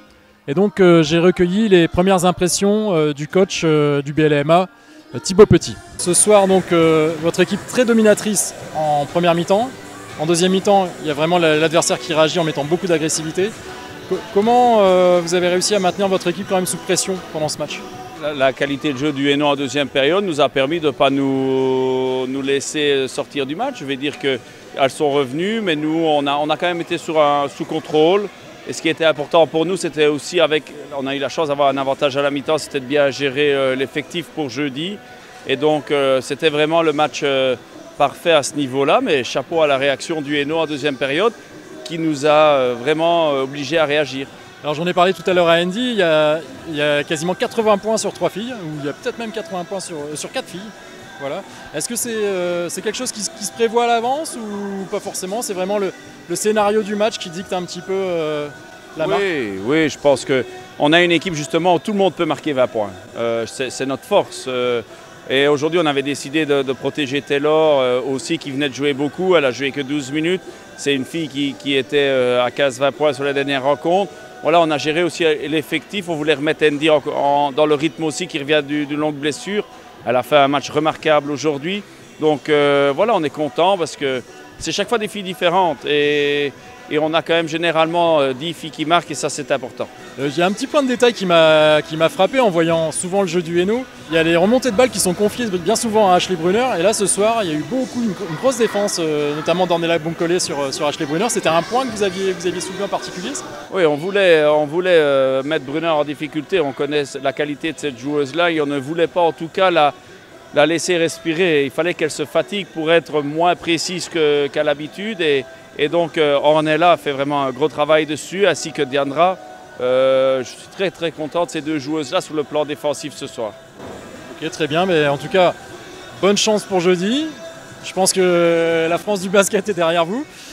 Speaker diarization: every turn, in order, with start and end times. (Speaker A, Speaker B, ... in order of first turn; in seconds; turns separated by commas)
Speaker A: 0.5-13.5, Speaker A: 14.1-17.8, Speaker B: 18.2-44.3, Speaker A: 44.6-59.2, Speaker B: 59.0-89.9, Speaker A: 90.2-103.4, Speaker B: 103.7-110.0, Speaker B: 110.5-123.6, Speaker A: 124.3-125.6, Speaker A: 126.2-130.3